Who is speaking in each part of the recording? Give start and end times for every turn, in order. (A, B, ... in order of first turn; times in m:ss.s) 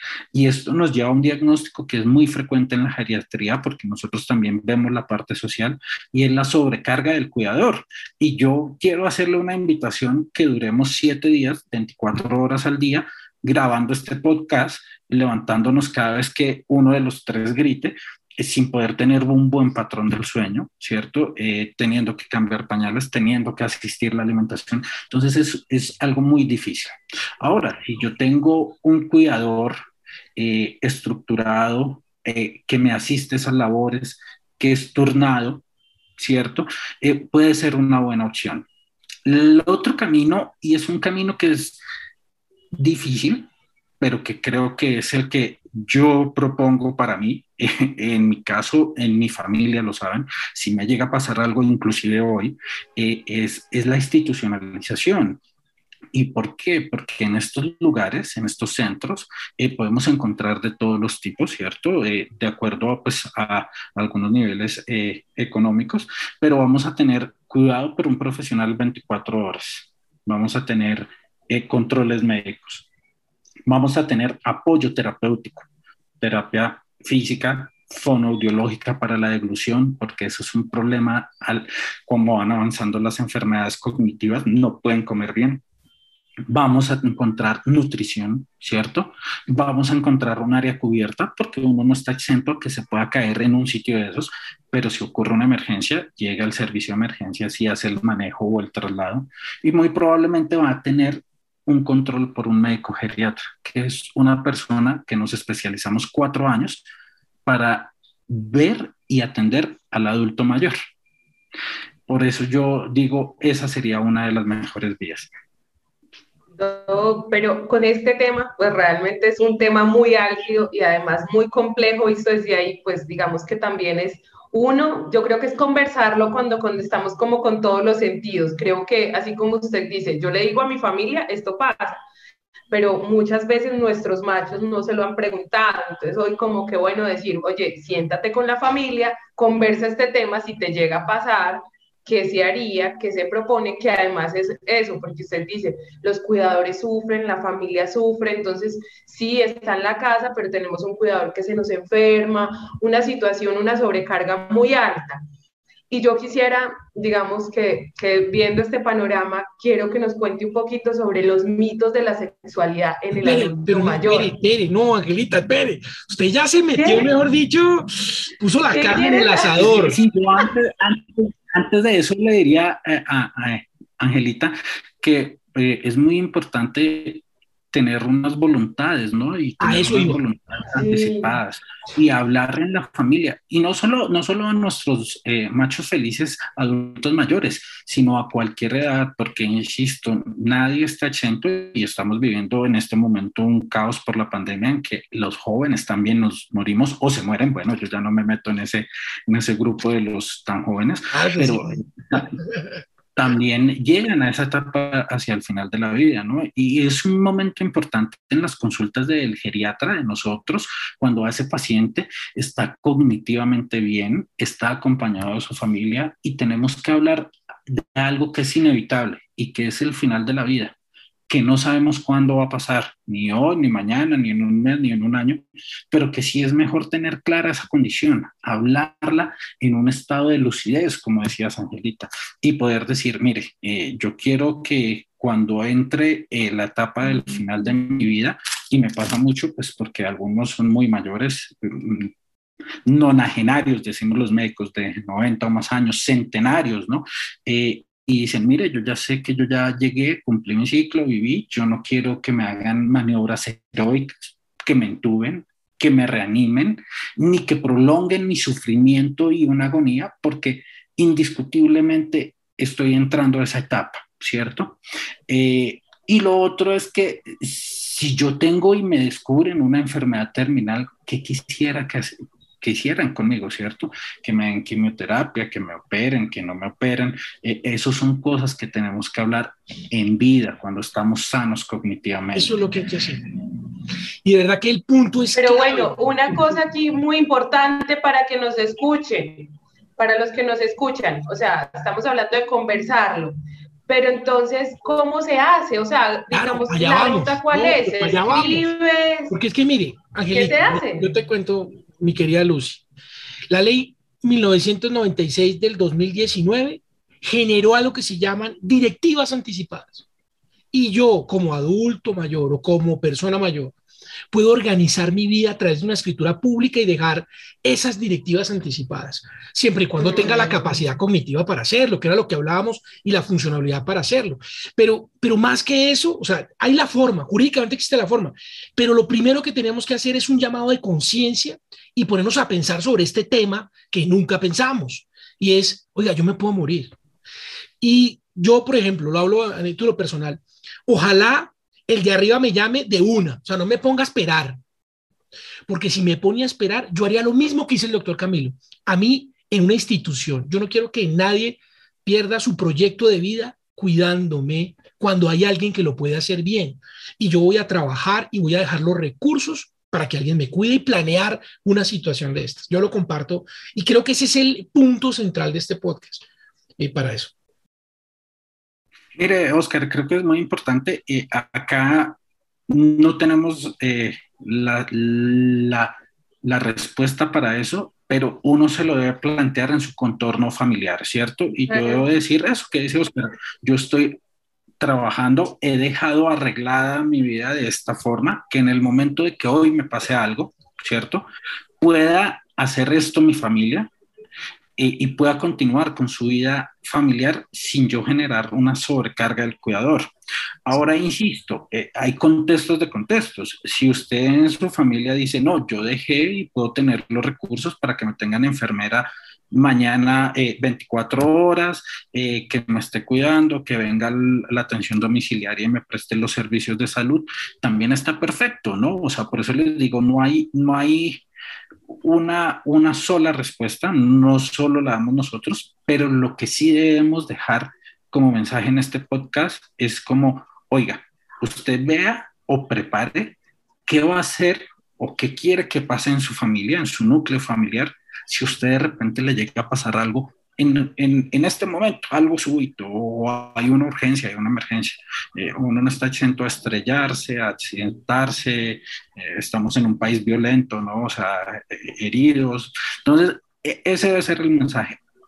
0:00.3-0:29.8 A
0:30.4-0:35.6 A
0:36.2-0:38.7 A
0:39.3-0:41.8 A
0:42.7-0:43.5 A
0:44.0-0:55.4 A
0:56.1-1:12.9 A
1:13.7-1:15.7 A
1:16.2-1:25.6 A
1:26.5-1:46.8 A
1:47.5-1:50.8 A
1:52.1-1:55.3 A
1:56.6-2:12.0 B
2:12.7-2:35.2 B
2:35.9-2:44.3 B
2:43.1-2:50.0 C
2:46.8-2:47.1 B
2:48.7-2:49.7 B
2:49.3-3:22.4 A
2:59.6-3:00.2 C
3:00.7-3:01.4 B
3:21.1-3:21.8 C
3:23.2-3:40.8 A
3:41.3-4:02.1 A
4:02.9-4:24.8 A
4:25.3-4:42.5 A
4:42.4-4:43.2 C
4:44.2-4:46.6 C
4:45.4-4:53.4 B
4:53.9-4:59.4 B
4:56.3-4:58.7 C
4:59.3-5:02.8 C
5:00.3-5:01.1 B
5:03.5-5:10.0 C
5:10.7-5:13.8 C
5:14.3-5:37.0 C
5:20.0-5:20.5 B
5:37.8-5:44.6 C
5:45.7-6:06.2 C
6:06.8-6:07.3 C
6:09.2-6:12.2 A
6:12.7-6:24.2 A
6:21.7-6:22.0 B
6:24.8-6:31.3 A
6:31.8-6:33.9 A
6:34.8-6:40.1 A
6:40.7-7:01.2 A
7:02.0-7:35.0 A